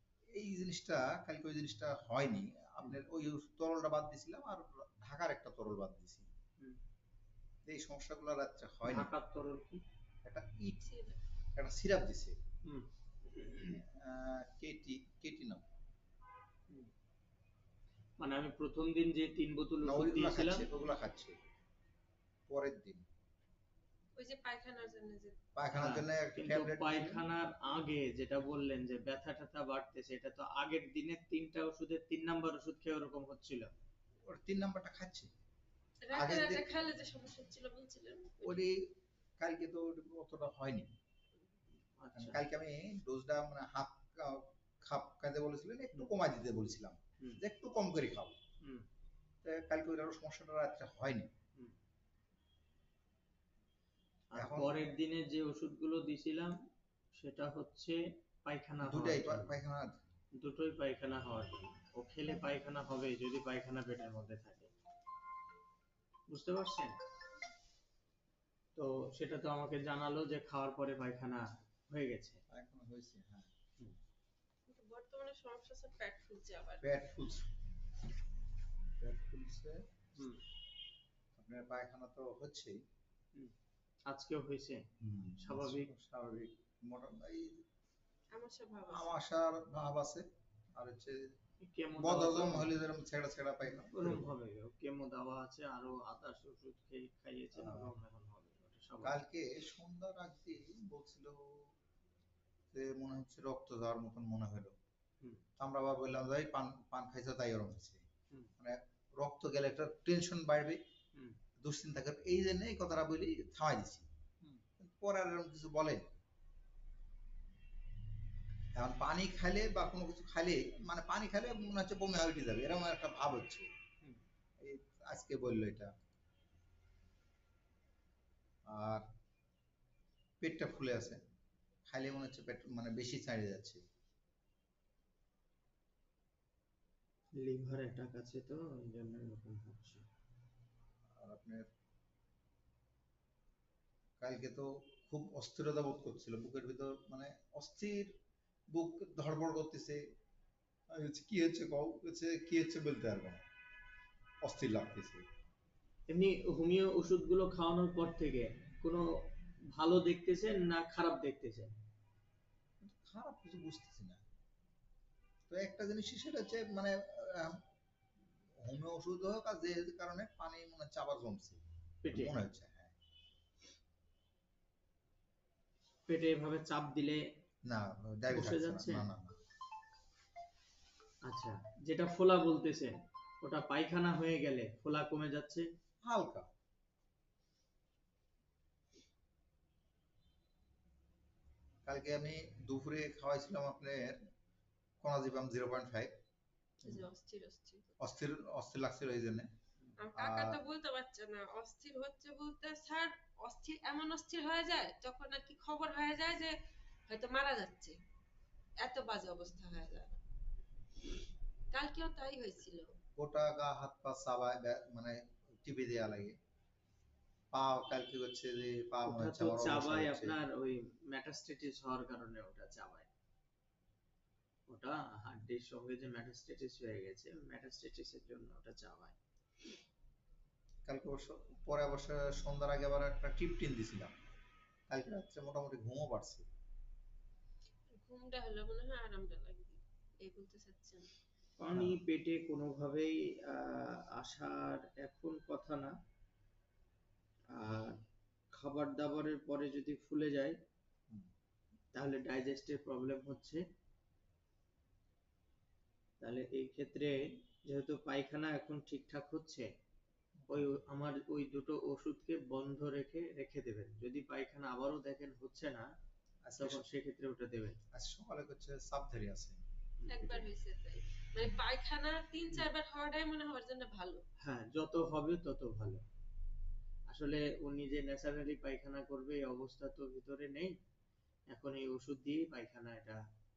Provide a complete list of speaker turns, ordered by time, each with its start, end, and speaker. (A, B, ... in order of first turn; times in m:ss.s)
0:00.3-0:06.3 A
0:07.6-0:09.1 A
0:08.8-0:09.8 B
0:10.2-0:10.8 A
0:10.8-0:11.2 C
0:11.6-0:12.4 A
0:12.6-0:13.8 B
0:13.6-0:15.6 A
0:18.2-0:20.6 B
0:19.8-0:21.4 A
0:22.5-0:23.0 A
0:24.2-0:25.4 C
0:25.6-0:27.2 A
0:25.7-0:33.7 B
0:34.2-0:35.3 A
0:36.0-0:38.6 C
0:36.1-0:36.7 A
0:38.4-0:40.9 A
0:42.0-0:42.4 B
0:42.1-0:48.4 A
0:49.4-0:51.3 A
0:54.3-0:56.5 B
0:54.3-0:54.7 A
0:57.1-0:59.5 B
0:58.8-1:00.0 A
1:00.4-1:04.7 B
1:06.3-1:07.0 B
1:08.8-1:12.4 B
1:12.5-1:13.5 A
1:14.7-1:16.9 C
1:16.8-1:17.5 A
1:19.0-1:19.8 A
1:20.2-1:20.4 B
1:21.4-1:22.8 A
1:24.1-1:24.8 B
1:25.0-1:27.6 A
1:25.4-1:25.9 B
1:28.3-1:29.2 C
1:28.9-1:30.2 A
1:30.8-1:31.3 A
1:31.6-1:32.7 B
1:32.0-1:34.3 A
1:33.6-1:39.2 B
1:37.5-1:37.9 A
1:39.0-1:41.7 A
1:42.7-1:44.8 A
1:45.6-1:48.0 A
1:48.6-1:50.8 A
1:51.6-1:54.1 A
1:54.8-1:56.1 A
1:58.7-2:03.7 A
2:04.6-2:05.9 A
2:08.7-2:09.1 A
2:10.4-2:11.2 A
2:11.9-2:13.8 A
2:17.3-2:20.0 B
2:21.2-2:21.6 A
2:24.2-2:28.1 A
2:28.7-2:30.0 A
2:30.9-2:33.4 A
2:34.4-2:35.2 A
2:36.1-2:41.7 B
2:42.8-2:44.2 A
2:45.5-2:47.6 A
2:48.6-2:52.9 A
2:52.0-2:52.3 B
2:56.1-2:57.2 B
2:57.7-2:59.4 A
2:58.3-2:59.1 B
3:01.2-3:05.7 B
3:06.0-3:06.5 A
3:11.8-3:14.2 A
3:15.0-3:16.1 A
3:16.8-3:17.9 C
3:18.0-3:19.5 A
3:20.0-3:26.5 C
3:20.2-3:20.6 A
3:27.1-3:28.0 C
3:28.8-3:30.2 C
3:31.7-3:33.0 C
3:33.2-3:36.4 A
3:37.5-3:40.4 A
3:39.0-3:43.1 B
3:44.7-3:49.2 B
3:50.8-3:54.1 A
3:54.9-3:56.5 A
3:58.0-4:01.1 C
4:01.6-4:05.9 B
4:01.7-4:02.0 A
4:07.5-4:08.0 B
4:08.5-4:10.6 B
4:11.9-4:13.6 B
4:16.2-4:19.7 B
4:20.4-4:20.7 A
4:20.5-4:25.9 B
4:26.4-4:26.8 A
4:26.6-4:27.8 B
4:27.9-4:29.6 A
4:30.1-4:34.2 C
4:30.2-4:30.4 A
4:34.4-4:36.0 B
4:37.1-4:40.7 B
4:41.5-4:43.2 B